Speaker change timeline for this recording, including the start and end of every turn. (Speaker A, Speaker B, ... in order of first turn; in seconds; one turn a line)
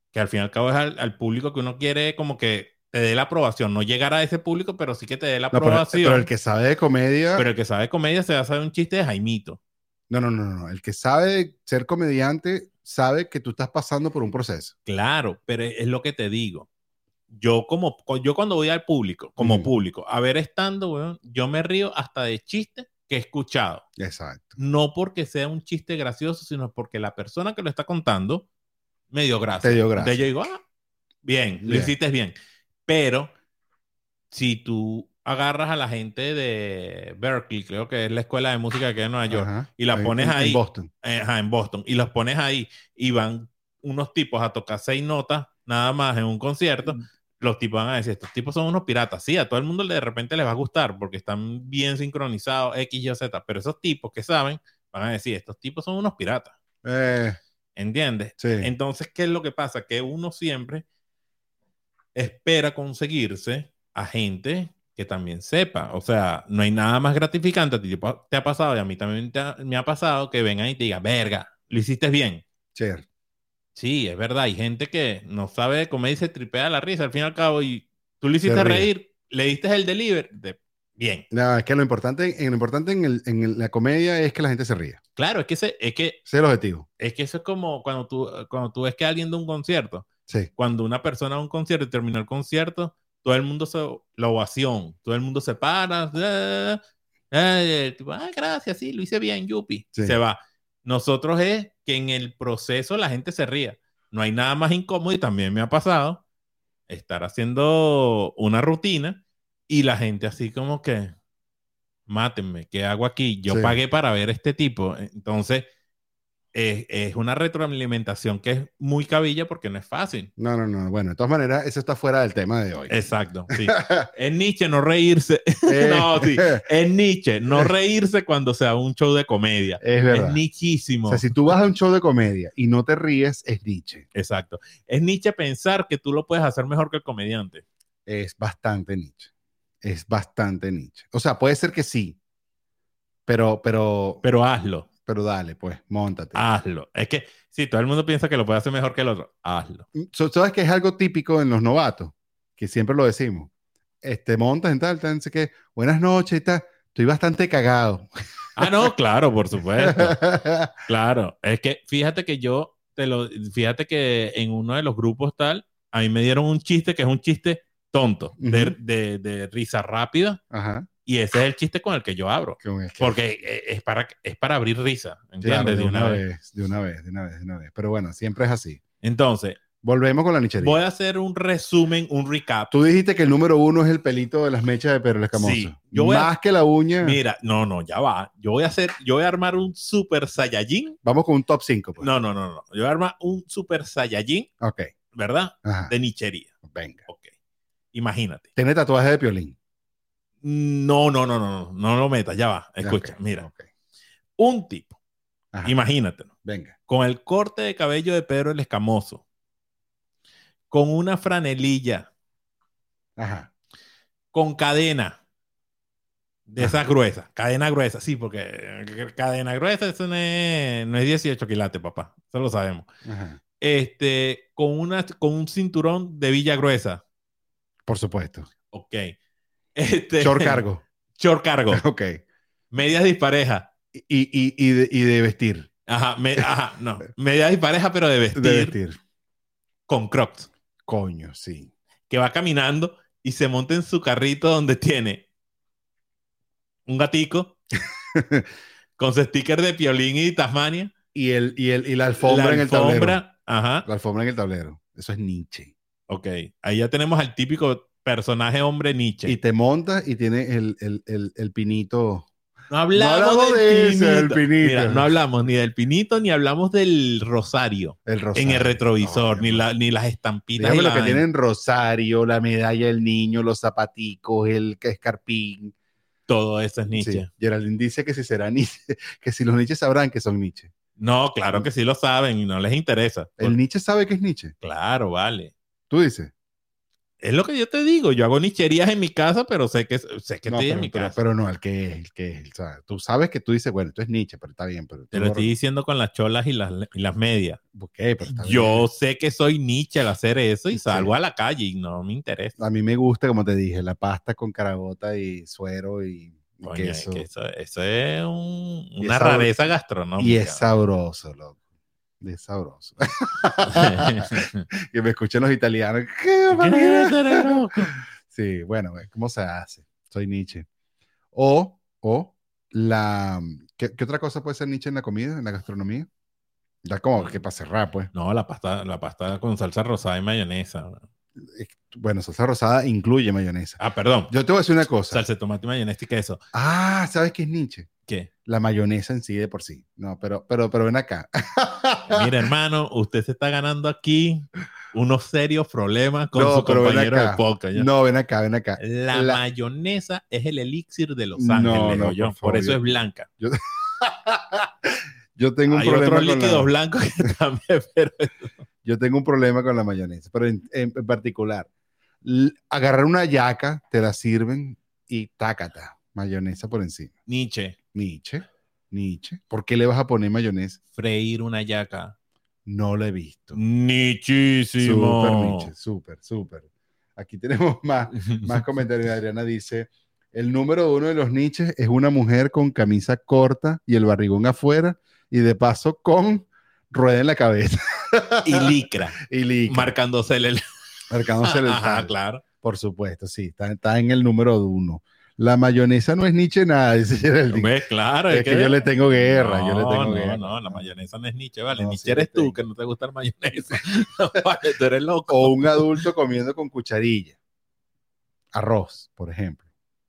Speaker A: 0.1-6.3
Speaker B: 5.5-7.5
Speaker A: 7.3-9.6
Speaker B: 10.1-14.7
Speaker A: 14.9-16.7
Speaker A: 17.3-23.9
Speaker B: 19.4-19.7
Speaker B: 24.0-24.6
Speaker A: 24.6-28.5
Speaker A: 29.1-30.6
Speaker B: 29.6-30.2
Speaker A: 31.2-32.3
Speaker B: 31.6-31.9
Speaker A: 32.9-33.3
Speaker A: 34.3-56.5
Speaker B: 39.3-40.9
Speaker B: 56.8-57.4
Speaker A: 57.8-60.9
Speaker B: 58.4-58.7
Speaker A: 62.1-72.4
Speaker B: 72.8-73.0
Speaker A: 73.8-81.3
Speaker B: 78.4-78.9
Speaker B: 81.3-85.0
Speaker A: 85.2-86.2
Speaker B: 86.3-86.9
Speaker A: 87.0-90.1
Speaker A: 90.6-96.8
Speaker A: 97.3-106.2
Speaker A: 106.9-111.1
Speaker A: 112.1-115.7
Speaker B: 113.5-113.8
Speaker A: 116.5-120.3
Speaker B: 120.4-122.9
Speaker A: 122.9-131.5
Speaker B: 123.5-124.1
Speaker B: 125.7-126.6
Speaker B: 129.8-130.4
Speaker B: 131.1-134.1
Speaker A: 134.2-137.6
Speaker B: 138.1-139.3
Speaker B: 139.8-142.2
Speaker B: 143.3-144.2
Speaker A: 144.2-144.9
Speaker B: 145.1-146.4
Speaker A: 146.3-149.9
Speaker B: 150.0-153.5
Speaker B: 154.0-158.9
Speaker A: 158.6-160.2
Speaker B: 159.7-160.8
Speaker A: 160.9-170.4
Speaker B: 168.4-168.8
Speaker B: 170.5-170.9
Speaker A: 171.1-176.2
Speaker B: 172.6-173.2
Speaker B: 175.4-178.8
Speaker A: 179.0-179.6
Speaker B: 179.8-180.8
Speaker A: 180.6-182.7
Speaker B: 182.7-187.2
Speaker A: 185.3-186.3
Speaker A: 187.0-191.0
Speaker B: 191.0-192.1
Speaker A: 192.0-194.5
Speaker B: 194.6-194.9
Speaker A: 195.1-196.5
Speaker B: 195.6-195.9
Speaker B: 196.6-197.1
Speaker A: 197.9-198.5
Speaker B: 198.6-199.6
Speaker A: 200.4-203.5
Speaker B: 202.8-203.7
Speaker A: 204.4-205.0
Speaker A: 205.6-206.3
Speaker B: 206.4-206.8
Speaker A: 206.9-209.2
Speaker A: 210.7-212.1
Speaker B: 213.2-213.5
Speaker A: 214.3-215.2
Speaker A: 216.5-222.9
Speaker B: 223.1-223.4
Speaker A: 223.6-227.0
Speaker B: 227.9-228.5
Speaker A: 228.7-229.1
Speaker A: 229.8-230.6
Speaker B: 230.2-230.8
Speaker A: 231.2-231.8
Speaker B: 231.7-232.2
Speaker A: 232.7-233.7
Speaker B: 233.9-235.7
Speaker A: 235.9-238.8
Speaker B: 238.3-239.0
Speaker A: 239.9-240.5
Speaker B: 240.9-241.7
Speaker A: 242.1-245.3
Speaker A: 246.9-247.6
Speaker B: 248.1-248.5
Speaker A: 249.0-250.9
Speaker B: 251.1-253.2
Speaker A: 252.3-253.9
Speaker B: 253.8-255.7
Speaker A: 256.1-259.4
Speaker B: 259.3-262.3
Speaker A: 262.7-271.2
Speaker B: 262.9-265.1
Speaker B: 268.1-269.6
Speaker B: 270.6-275.8
Speaker A: 276.3-277.3
Speaker B: 276.9-280.7
Speaker A: 281.0-283.6
Speaker B: 283.4-284.5
Speaker A: 284.6-285.5
Speaker B: 285.9-286.3
Speaker A: 287.2-291.2
Speaker B: 290.5-295.5
Speaker A: 295.1-297.6
Speaker B: 297.7-298.9
Speaker A: 298.2-302.6
Speaker B: 300.7-301.1
Speaker B: 302.6-307.3
Speaker A: 306.6-310.6
Speaker B: 309.0-309.5
Speaker B: 310.2-311.6
Speaker B: 312.2-317.7
Speaker A: 313.7-314.7
Speaker A: 316.5-318.0
Speaker B: 318.2-320.7
Speaker B: 321.3-326.1
Speaker B: 326.8-328.1
Speaker A: 328.1-331.0
Speaker B: 331.4-335.2
Speaker A: 333.8-334.3
Speaker A: 335.1-336.4
Speaker B: 336.5-337.9
Speaker B: 338.4-342.3
Speaker A: 342.1-347.9
Speaker B: 346.4-349.4
Speaker A: 348.8-353.3
Speaker B: 351.4-356.7
Speaker A: 355.7-358.6
Speaker B: 358.8-361.7
Speaker B: 362.2-367.1
Speaker A: 367.3-367.8
Speaker B: 367.9-370.8
Speaker A: 370.9-372.1
Speaker B: 372.7-373.6
Speaker A: 373.5-375.7
Speaker B: 374.8-389.9
Speaker A: 378.1-378.6
Speaker A: 388.4-390.6
Speaker B: 391.1-397.7
Speaker A: 391.4-392.4
Speaker A: 397.5-406.1
Speaker B: 398.3-400.9
Speaker B: 401.7-402.6
Speaker B: 405.3-407.4
Speaker B: 408.5-409.6